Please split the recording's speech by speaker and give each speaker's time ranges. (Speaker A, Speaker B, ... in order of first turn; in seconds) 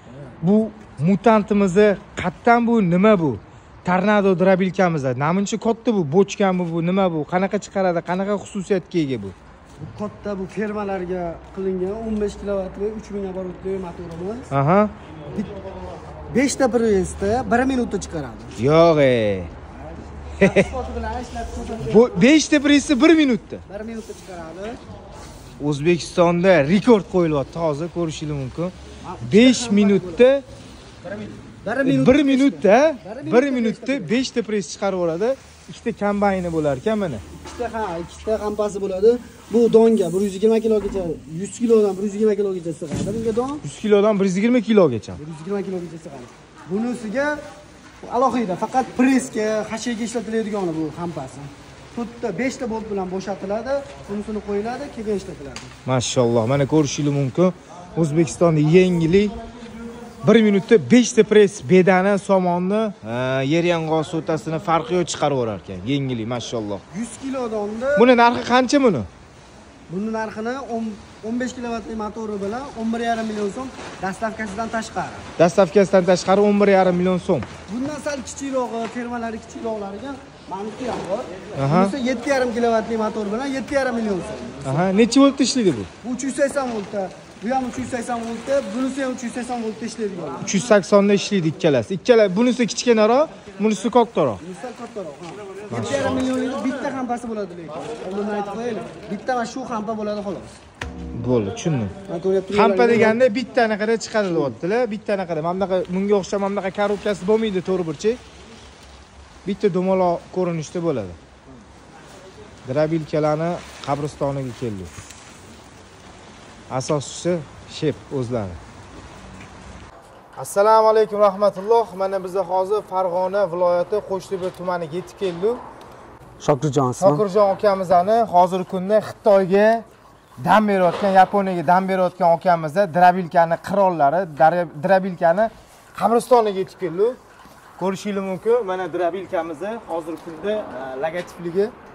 Speaker A: 0.4-9.3, 14.5-14.9, 18.6-19.5, 20.4-20.7, 21.9-23.6, 25.6-30.4, 31.8-37.2, 43.6-45.2, 55.9-59.4, 60.2-66.8, 68.0-69.1, 75.4-77.5, 81.5-82.0, 84.6-85.9, 90.4-94.4, 95.7-96.3, 101.2-101.9, 102.5-108.2, 109.4-111.2, 112.7-114.9, 116.7-118.6, 120.4-125.6, 127.0-129.8, 130.4-137.2, 137.8-141.7
Speaker B: 9.8-14.5, 15.3-15.6, 16.3-18.5, 19.8-22.2, 23.7-24.8, 29.0-30.2, 31.0-34.1, 37.4-43.6, 45.2-47.4, 48.0-55.7, 66.9-68.1, 69.9-75.3, 77.7-84.8, 86.0-90.7, 94.4-100.5, 102.1-103.2, 126.4-127.2